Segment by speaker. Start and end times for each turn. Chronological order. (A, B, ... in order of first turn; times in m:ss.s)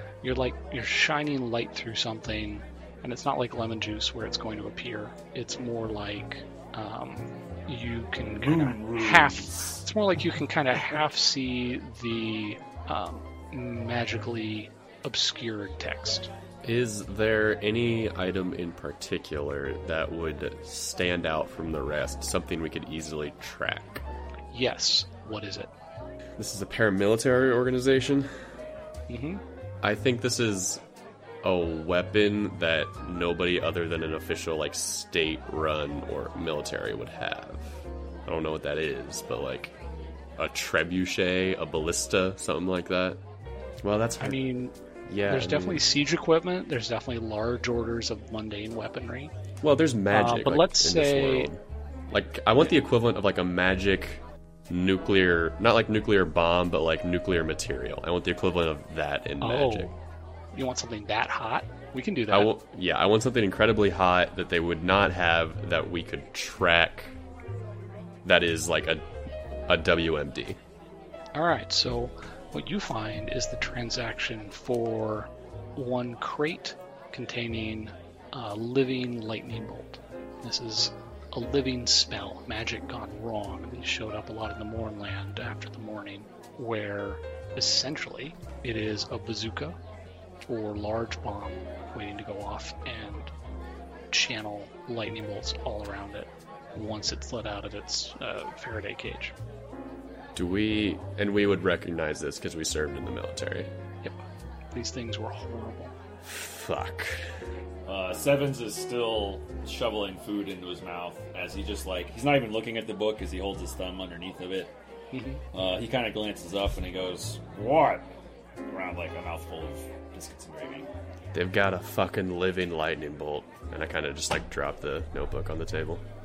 0:00.2-0:16.3 A
0:08.2-0:09.8 B
0:16.6-0:24.0 C
0:24.5-0:25.7 A
0:26.4-0:28.3 C
0:29.1-0:29.4 A
0:29.8-0:30.8 C
0:31.4-0:39.7 C
0:40.4-0:43.2 C
0:43.8-0:44.4 C
0:44.2-0:44.7 A
0:45.0-0:45.8 C
0:45.3-0:49.3 A
0:49.6-0:59.9 C
0:50.1-0:51.5 A
0:59.4-0:59.9 A
1:00.5-1:02.5 A
1:02.3-1:07.1 C
1:08.2-1:09.0 C
1:09.7-1:10.6 C
1:11.3-1:29.8 A
1:30.4-1:33.3 A
1:34.1-1:39.3 A
1:40.3-1:43.7 C
1:44.7-1:45.9 A
1:46.2-1:47.3 C
1:47.8-1:54.7 B
1:55.1-1:55.4 A
1:55.5-1:58.0 B
1:58.7-2:00.9 B
2:01.3-2:06.0 C